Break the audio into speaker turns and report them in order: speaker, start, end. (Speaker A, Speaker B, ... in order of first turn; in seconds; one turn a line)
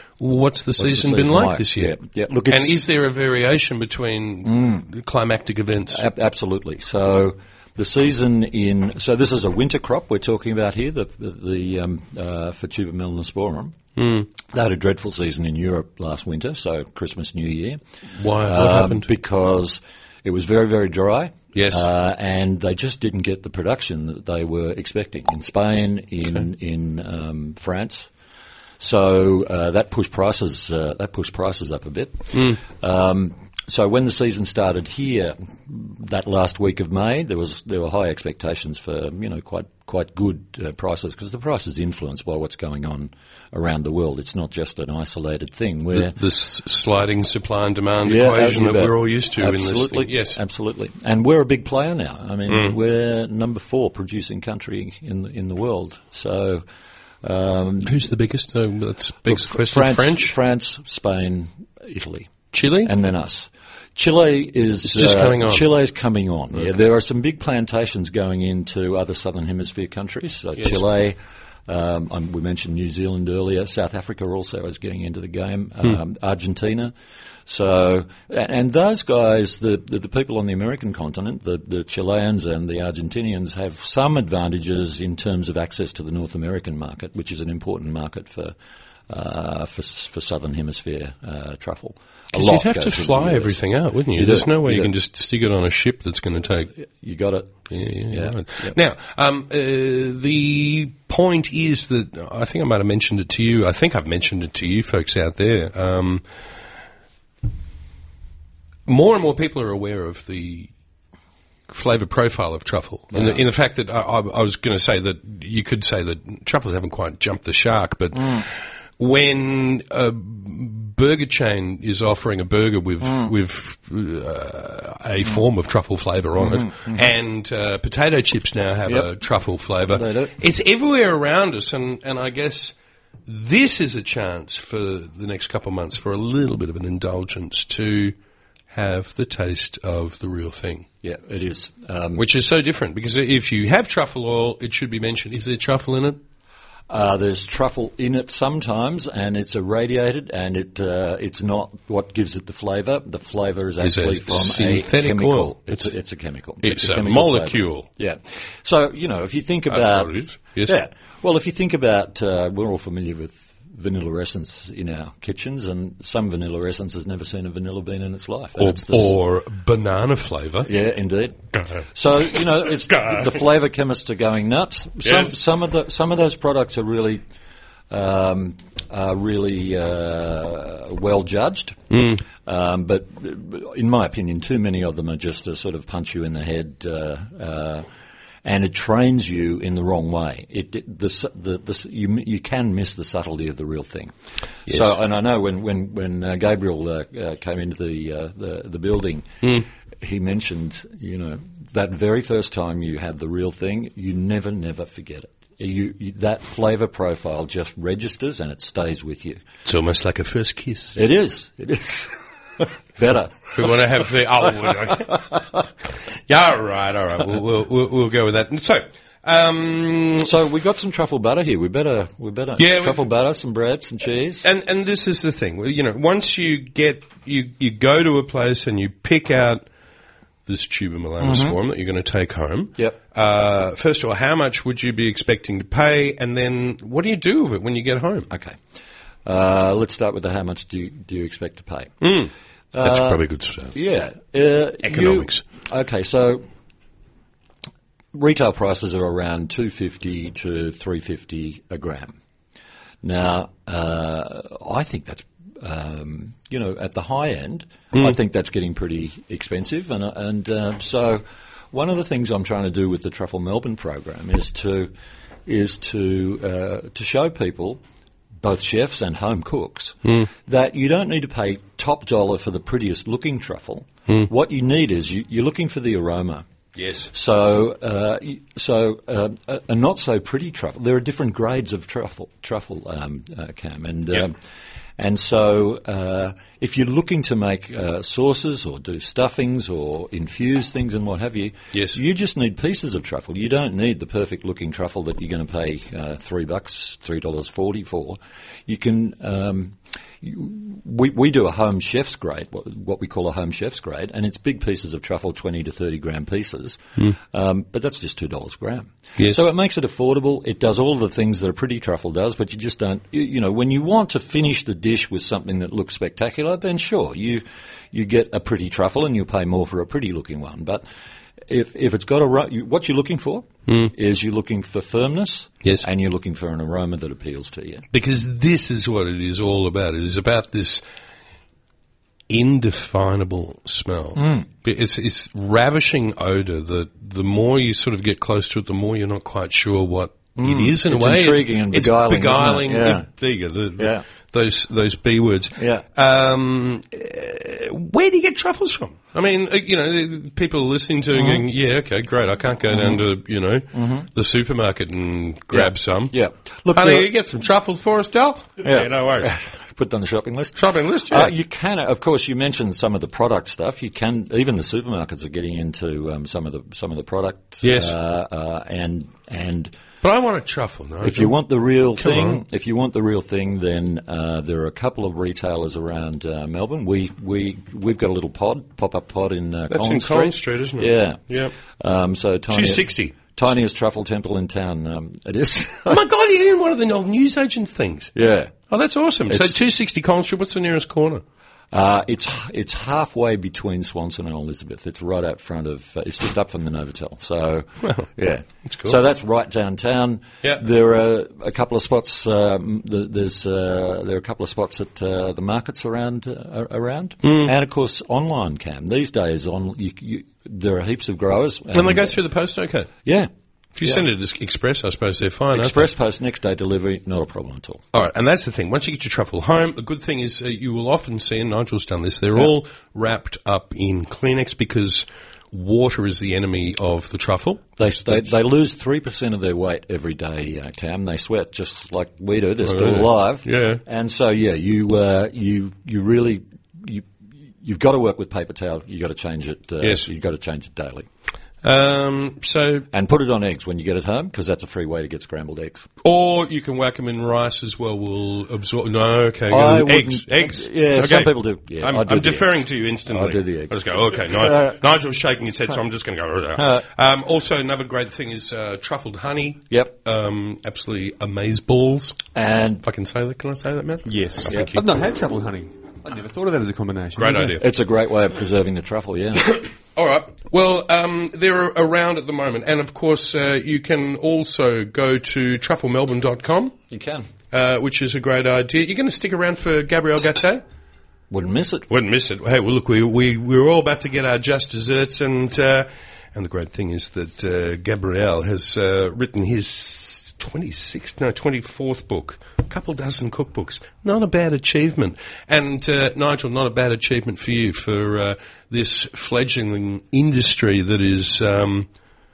Speaker A: 0.2-6.0
Speaker B: 0.8-2.7
Speaker B: 4.5-4.8
Speaker B: 5.9-13.8
Speaker A: 14.0-14.3
Speaker B: 14.4-17.8
Speaker A: 18.2-19.1
Speaker B: 18.4-28.1
Speaker A: 21.5-21.8
Speaker B: 28.8-46.2
Speaker A: 32.3-32.6
Speaker A: 45.9-50.4
Speaker B: 48.0-56.6
Speaker A: 52.5-52.7
Speaker B: 57.2-58.0
Speaker A: 57.8-60.3
Speaker B: 59.2-76.9
Speaker A: 62.5-62.9
Speaker A: 64.8-65.6
Speaker B: 77.5-88.5
Speaker B: 89.1-93.6
Speaker A: 92.3-96.7
Speaker B: 94.1-94.9
Speaker B: 96.8-98.8
Speaker A: 97.7-106.2
Speaker A: 108.8-110.7
Speaker A: 111.7-132.7
Speaker B: 113.1-113.4
Speaker B: 123.0-123.3
Speaker B: 126.4-127.0
Speaker B: 129.9-130.3
Speaker A: 133.3-138.1
Speaker A: 138.7-140.8
Speaker B: 141.0-142.2
Speaker A: 142.2-146.2
Speaker B: 146.9-169.1
Speaker A: 153.8-155.9
Speaker A: 156.6-157.9
Speaker A: 159.7-160.8
Speaker A: 168.6-170.7
Speaker B: 170.6-177.2
Speaker A: 172.9-173.2
Speaker A: 175.0-175.3
Speaker B: 177.9-187.8
Speaker A: 181.9-182.2
Speaker B: 188.4-194.1
Speaker B: 194.7-209.4
Speaker A: 209.6-211.0
Speaker B: 210.9-213.7
Speaker A: 213.5-215.4
Speaker A: 216.3-220.3
Speaker B: 220.2-224.4
Speaker A: 222.6-223.0
Speaker A: 224.4-229.6
Speaker A: 230.4-238.3
Speaker B: 231.2-231.6
Speaker B: 238.3-238.6
Speaker B: 239.2-241.9
Speaker A: 242.0-243.7
Speaker B: 242.7-243.2
Speaker B: 243.7-246.4
Speaker A: 244.8-245.4
Speaker B: 248.1-252.2
Speaker B: 253.0-264.9
Speaker B: 265.4-267.8
Speaker B: 268.4-276.4
Speaker A: 276.8-277.1
Speaker B: 277.1-284.4
Speaker B: 285.0-320.8
Speaker B: 321.5-327.8
Speaker A: 323.7-323.9
Speaker A: 327.9-330.8
Speaker A: 332.3-356.1
Speaker B: 334.1-334.4
Speaker B: 340.4-343.1
Speaker B: 343.8-344.0
Speaker B: 345.6-345.8
Speaker B: 351.1-351.4
Speaker B: 352.7-353.0
Speaker B: 353.7-354.1
Speaker B: 355.5-357.1
Speaker A: 356.7-359.3
Speaker B: 358.6-369.7
Speaker A: 360.6-361.3
Speaker A: 367.6-367.9
Speaker A: 370.0-371.4
Speaker B: 371.0-386.0
Speaker A: 372.0-372.4
Speaker A: 379.7-381.5
Speaker A: 382.5-383.3
Speaker A: 385.9-388.1
Speaker B: 388.1-388.5
Speaker A: 388.7-391.2
Speaker B: 389.3-389.6
Speaker B: 391.7-412.2
Speaker A: 397.8-398.1
Speaker A: 398.6-399.0
Speaker A: 407.2-407.5
Speaker A: 411.7-412.9
Speaker B: 413.0-413.3
Speaker A: 413.8-415.9
Speaker B: 415.5-417.8
Speaker A: 417.9-428.2
Speaker B: 427.8-437.1
Speaker A: 432.6-433.8
Speaker B: 437.6-441.1
Speaker A: 439.8-440.1
Speaker A: 441.6-442.9
Speaker B: 442.9-445.9
Speaker A: 446.0-462.2
Speaker B: 449.5-454.8
Speaker B: 456.6-456.8
Speaker B: 462.3-462.8
Speaker A: 462.8-464.8
Speaker C: 464.1-467.6
Speaker A: 467.1-467.6
Speaker B: 467.6-469.5
Speaker A: 469.4-476.7
Speaker B: 476.9-477.3
Speaker A: 477.5-480.6
Speaker B: 481.3-481.9
Speaker A: 481.9-501.9